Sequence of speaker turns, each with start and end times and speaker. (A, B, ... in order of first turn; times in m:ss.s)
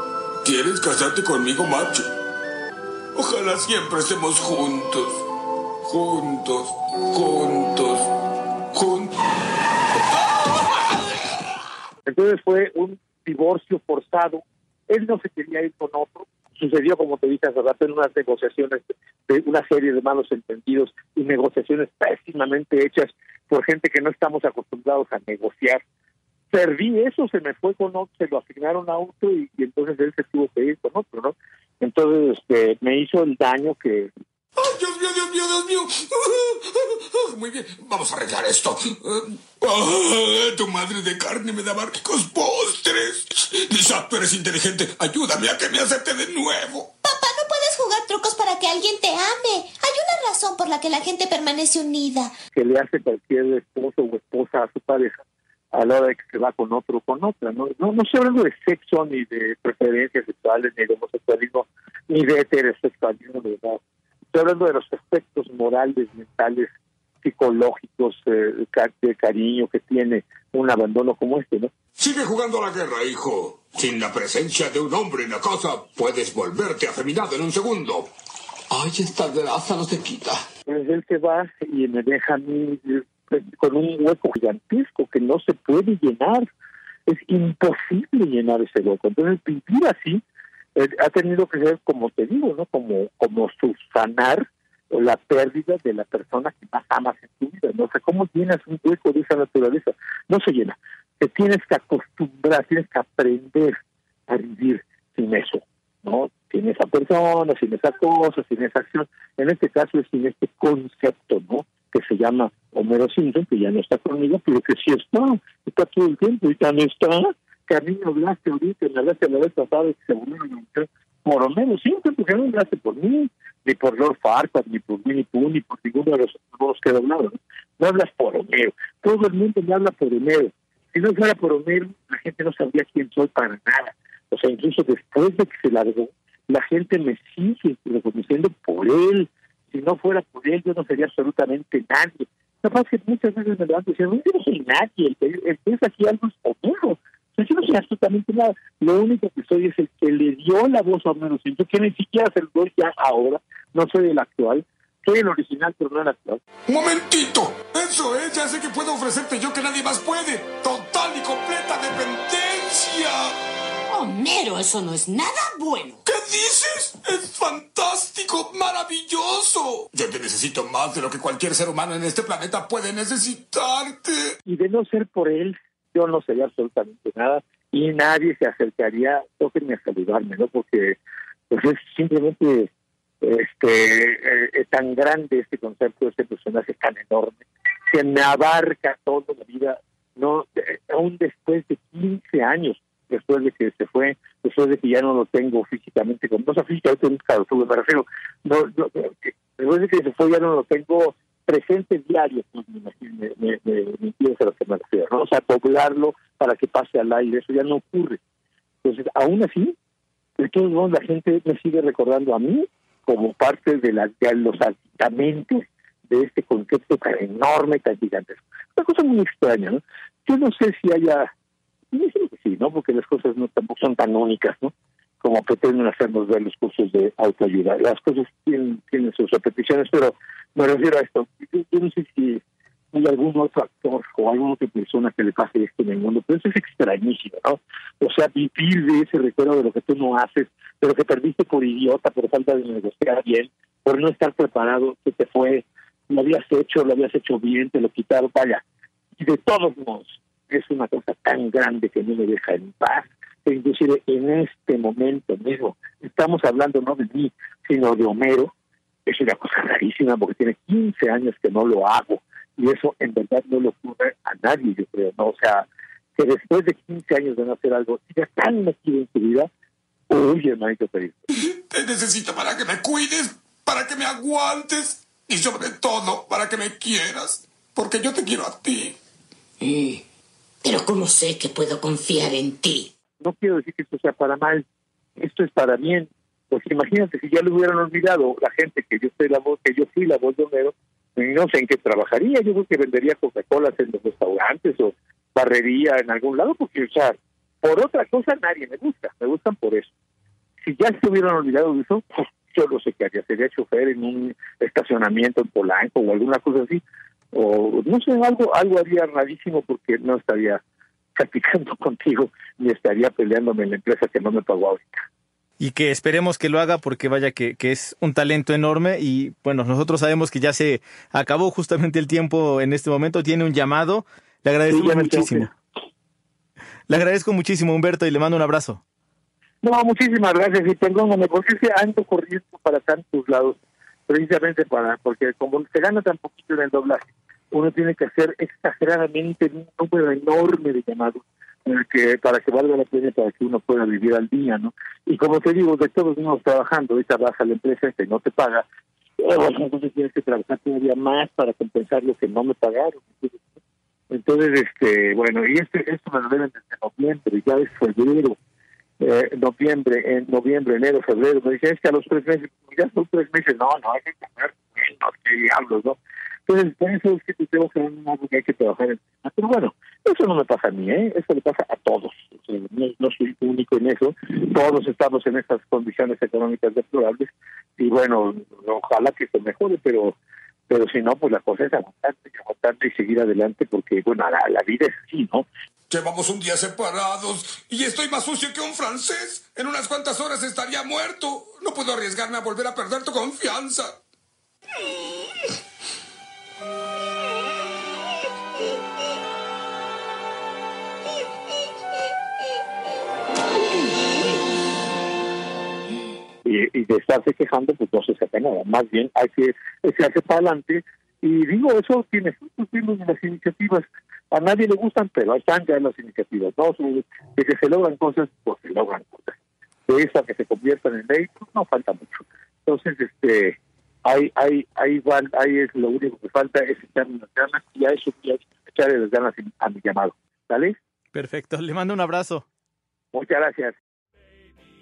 0:00.4-0:02.1 A
0:03.1-0:05.2 A
0:05.8-0:08.1 A
0:08.7-0:09.2 A
0:12.1-0:25.8 B
0:26.5-0:34.1 B
0:34.6-0:46.9 A
0:47.0-0:52.3 C
0:52.5-0:55.2 B
0:55.7-1:03.8 B
1:04.3-1:06.7 B
1:07.2-1:11.7 B
1:12.0-1:18.1 A
1:18.7-1:20.4 A
1:20.7-1:26.5 B
1:27.1-1:30.2 B
1:30.7-1:43.8 B
1:44.3-2:36.4 B
2:36.7-2:43.4 A
2:43.9-2:46.0 D
2:46.0-2:54.4 A
2:54.4-3:01.0 B
3:01.5-3:02.7 B
3:03.2-3:28.2 B
3:28.8-3:29.7 B
3:30.4-3:41.3 B
3:41.9-3:52.4 B
3:52.9-4:08.6 B
4:09.2-4:18.5 B
4:19.0-4:29.5 B
4:30.1-4:31.2 B
4:31.4-4:39.0 A
4:39.6-4:40.0 D
4:40.6-4:42.9 D
4:43.2-4:44.6 B
4:45.2-4:59.9 B
5:00.6-5:06.8 B
5:07.3-5:10.6 B
5:11.1-5:15.0 B
5:15.6-5:25.5 E
5:24.7-5:25.5 B
5:26.9-5:28.8 E
5:29.6-5:33.6 B
5:34.1-5:48.6 B
5:49.2-5:53.6 B
5:54.1-5:58.4 B
5:59.0-6:20.1 B
6:20.7-6:25.5 B
6:25.9-6:34.0 A
6:46.4-6:59.3 B
6:59.9-7:10.8 B
7:11.1-7:12.4 E
7:13.1-7:13.7 B